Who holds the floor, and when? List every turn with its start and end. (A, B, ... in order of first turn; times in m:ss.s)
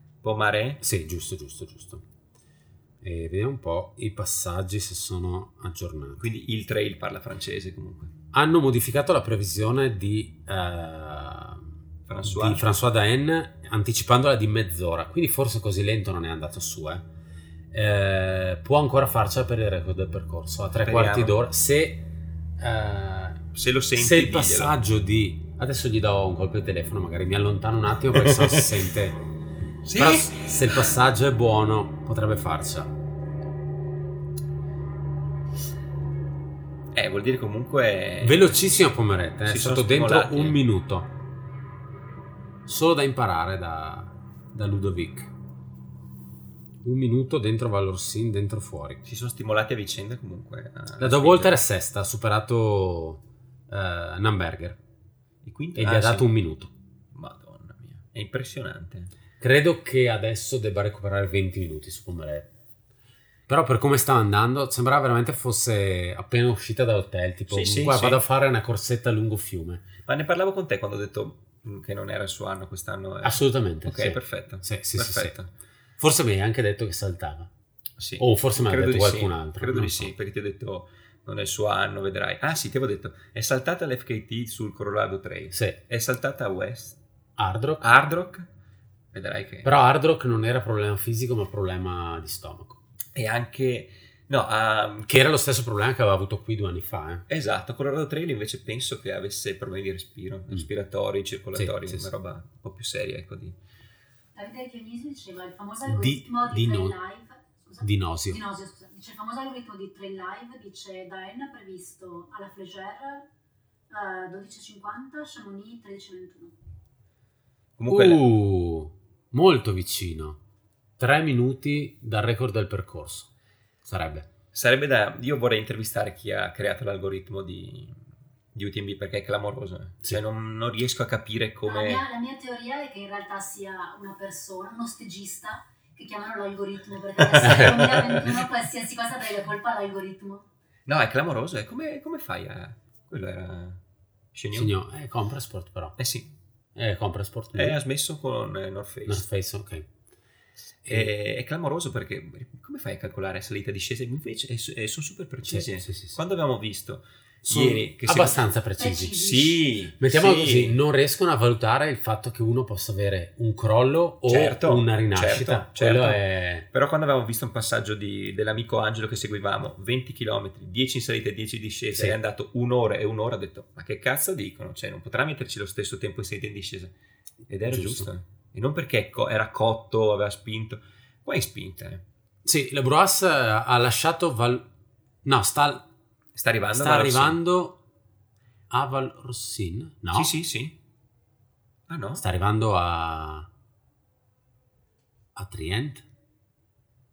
0:00.2-0:00.8 A
0:00.8-0:02.0 B
0:03.0-0:06.2 B
0:06.2-0:08.1 A
0:08.3-0:11.7 B
0:12.1-0:12.6 A
0:12.2-0:17.0 B
0:17.7-0:23.4 B
0:20.8-0:21.4 A
0:23.5-0:24.8 A
0:23.9-0:29.2 B
0:28.2-0:28.7 A
0:29.8-0:30.9 A
0:30.0-0:32.9 B
0:36.9-0:40.6 A
0:38.2-0:41.1 B
0:42.6-0:45.3 B
0:46.8-0:49.0 B
0:49.0-0:51.6 A
0:51.0-0:54.8 B
0:55.4-0:56.3 A
0:55.8-0:56.7 B
0:57.1-0:59.1 A
0:59.4-1:02.5 B
1:03.5-1:09.9 B
1:07.5-1:08.2 A
1:10.1-1:15.5 A
1:13.2-1:15.4 B
1:16.0-1:17.5 B
1:18.0-1:27.0 A
1:18.2-1:20.1 B
1:25.5-1:25.8 B
1:27.4-1:27.8 B
1:27.8-1:28.5 A
1:29.1-1:29.7 A
1:29.6-1:32.8 B
1:33.2-1:35.2 A
1:35.1-1:37.3 B
1:37.3-1:43.6 A
1:41.6-1:42.1 B
1:44.4-1:53.3 C
1:45.9-1:47.0 B
1:47.8-1:48.4 B
1:53.9-1:56.6 C
1:57.8-1:58.2 A
1:57.9-2:00.4 B
2:01.0-2:03.3 B
2:03.8-2:04.3 B
2:04.5-2:08.0 A
2:08.6-2:12.0 A
2:11.6-2:20.4 C
2:17.2-2:18.4 A
2:17.4-2:18.1 B
2:20.9-2:23.8 A
2:24.3-2:24.8 A
2:24.5-2:25.9 B
2:26.0-2:26.3 A
2:26.7-2:27.8 B
2:27.6-2:29.3 A
2:29.1-2:29.9 B
2:30.9-2:31.1 B
2:30.9-2:38.5 A
2:35.4-2:36.2 B
2:37.4-2:39.2 B
2:38.8-2:39.7 C
2:39.1-2:40.8 A
2:40.0-2:46.6 B
2:44.3-2:56.9 A
2:57.5-3:02.0 A
2:57.7-2:58.1 B
3:02.4-3:04.7 B
3:05.2-3:05.9 B
3:06.4-3:07.4 A
3:06.7-3:07.8 B
3:08.7-3:10.3 B
3:10.1-3:10.8 A
3:11.9-3:12.2 A
3:12.2-3:13.5 B
3:15.4-3:16.0 B